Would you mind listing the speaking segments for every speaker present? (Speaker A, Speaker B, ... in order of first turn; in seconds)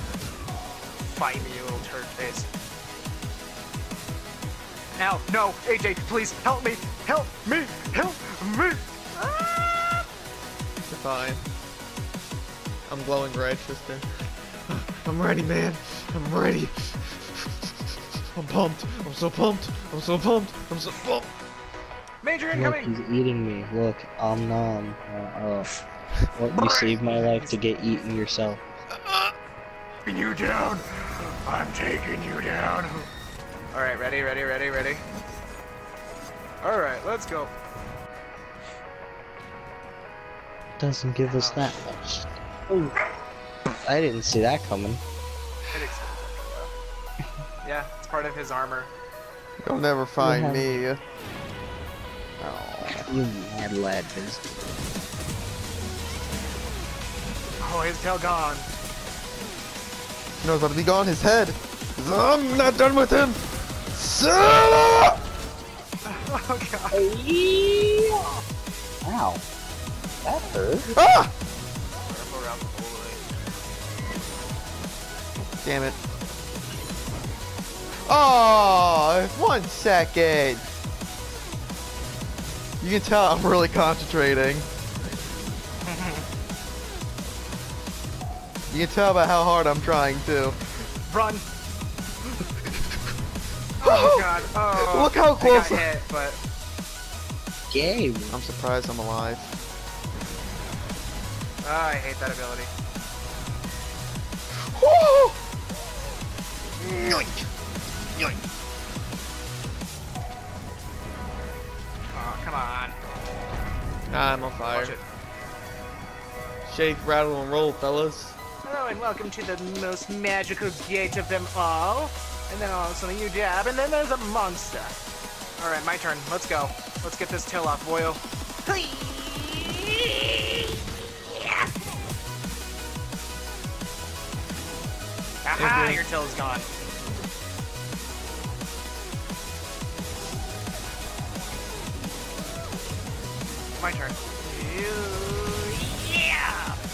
Speaker A: 1.0-2.5, 5.0-10.1, 22.2-22.9, 26.5-28.1, 30.1-33.0, 33.7-35.0, 36.6-37.5, 41.2-41.8, 45.7-46.7, 47.6-48.9, 57.6-58.7, 66.0-67.0, 72.0-73.2, 85.8-86.2, 91.1-91.4, 93.8-96.4, 101.6-102.7, 112.1-113.0, 114.7-115.0, 118.6-124.9, 125.6-130.7, 131.3-131.7, 135.4-136.7, 143.8-146.8
Speaker B: 10.9-11.4, 12.9-14.1, 14.7-17.7, 18.3-21.3, 28.9-29.3, 32.3-32.7, 49.6-51.0, 52.4-53.1, 60.4-63.4, 63.9-65.1, 70.9-71.3, 75.6-76.0, 78.0-80.7, 82.8-84.7, 88.7-90.5, 93.8-95.8, 98.3-99.5, 104.7-105.3, 106.8-107.4, 114.1-115.0, 116.7-118.3, 135.6-136.0
Speaker C: 22.5-25.7, 26.4-28.6, 40.8-42.9, 43.8-45.0, 50.2-50.8, 53.1-54.5, 66.9-68.1, 69.0-69.4, 70.2-70.9, 97.7-98.4